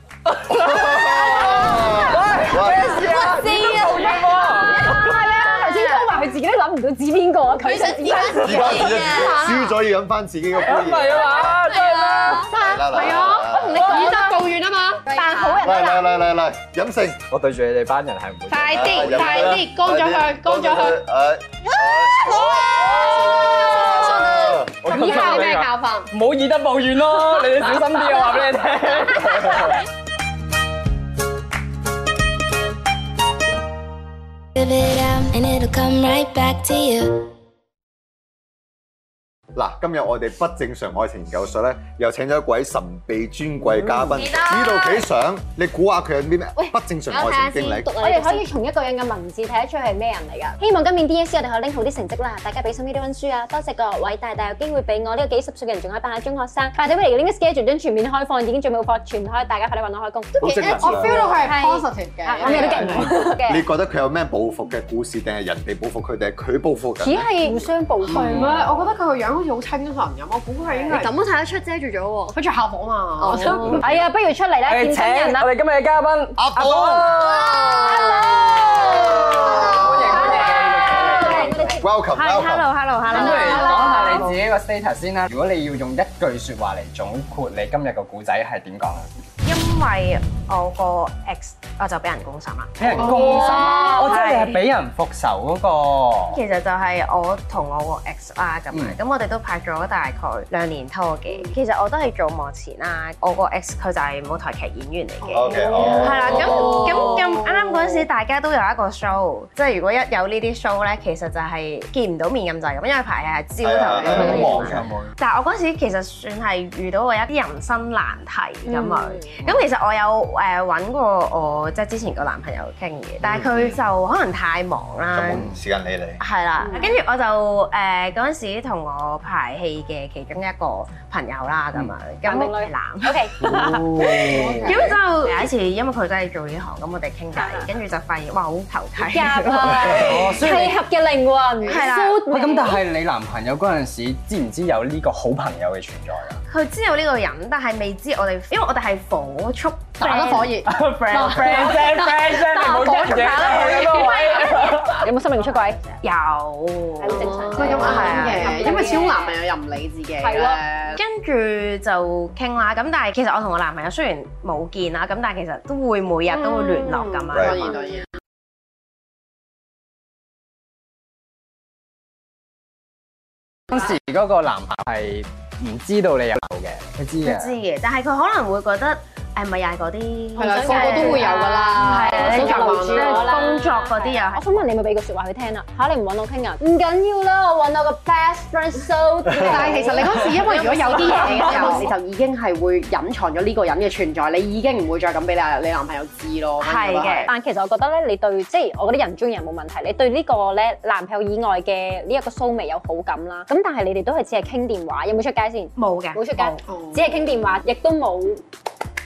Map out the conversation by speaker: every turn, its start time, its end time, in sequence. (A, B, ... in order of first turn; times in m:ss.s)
0:00.5-0:03.0 A
0:01.9-0:05.1 B
0:03.0-0:04.3 C
0:03.0-0:08.9 D
0:07.6-0:09.7 C
0:08.4-0:11.4 A
0:10.6-0:12.5 B
0:11.3-0:12.5 C
0:12.5-0:15.1 E
0:12.5-0:13.9 A
0:13.5-0:14.5 D
0:15.1-0:16.2 D
0:15.1-0:15.6 C
0:15.6-0:17.2 A
0:17.3-0:19.6 B
0:18.5-0:21.0 E
0:18.7-0:22.3 A
0:21.7-0:24.6 C
0:23.2-0:24.7 A
0:23.5-0:24.0 E
0:24.8-0:29.8 B
0:24.8-0:26.1 E
0:34.6-0:37.3 F
0:39.5-0:47.9 A
0:44.1-0:45.0 G
0:47.1-0:48.5 C
0:48.0-1:03.6 D
1:00.4-1:01.4 A
1:00.4-1:03.1 E
1:02.4-1:07.3 A
1:07.0-1:08.4 D
1:08.0-1:11.1 E
1:08.2-1:08.6 B
1:10.9-1:12.4 C
1:12.3-1:13.6 E
1:13.2-1:13.9 C
1:13.3-1:15.5 D
1:14.7-1:17.9 B
1:16.4-1:17.1 A
1:17.1-1:21.0 C
1:17.8-1:18.4 D
1:18.8-1:21.7 B
1:19.2-1:21.9 D
1:21.5-1:22.7 A
1:22.1-1:24.3 G
1:23.1-1:29.1 B
1:23.1-1:24.3 D
1:23.5-1:23.9 E
1:29.4-1:34.6 G
1:32.8-1:36.4 B
1:32.9-1:33.5 E
1:33.1-1:34.1 D
1:36.3-2:05.5 G
1:38.7-1:39.0 B
1:45.2-1:47.3 E
1:45.3-1:46.8 A
1:53.6-1:54.9 A
1:54.1-1:55.1 B
1:58.7-1:59.3 D
2:03.2-2:03.7 A
2:05.1-2:06.2 A
2:06.2-2:20.4 G
2:12.2-2:13.7 D
2:13.4-2:14.8 B
2:14.3-2:15.0 E
2:14.4-2:14.9 D
2:17.4-2:17.7 D
2:19.1-2:22.8 D
2:19.8-2:20.3 A
2:19.9-2:20.8 B
2:21.6-2:22.0 E
2:21.7-2:22.3 G
2:22.3-2:26.4 B
2:26.5-2:30.6 G
2:30.0-2:34.4 E
2:30.6-2:35.0 B
2:32.3-2:35.8 D
2:36.0-2:38.8 G
2:37.0-2:39.4 D
2:37.1-2:41.0 E
2:37.1-2:37.9 C
2:40.2-2:40.6 D
2:40.9-2:47.9 G
2:46.3-2:48.1 E
2:47.3-2:47.7 A
2:53.7-2:57.6 B
2:57.2-3:04.7 G
3:00.4-3:03.6 E
3:00.4-3:11.9 D
3:09.3-3:09.6 A
3:09.4-3:17.3 E
3:10.5-3:11.8 G
3:16.6-3:17.3 G
3:17.2-3:28.4 D
3:25.8-3:26.6 G
3:26.6-3:27.2 E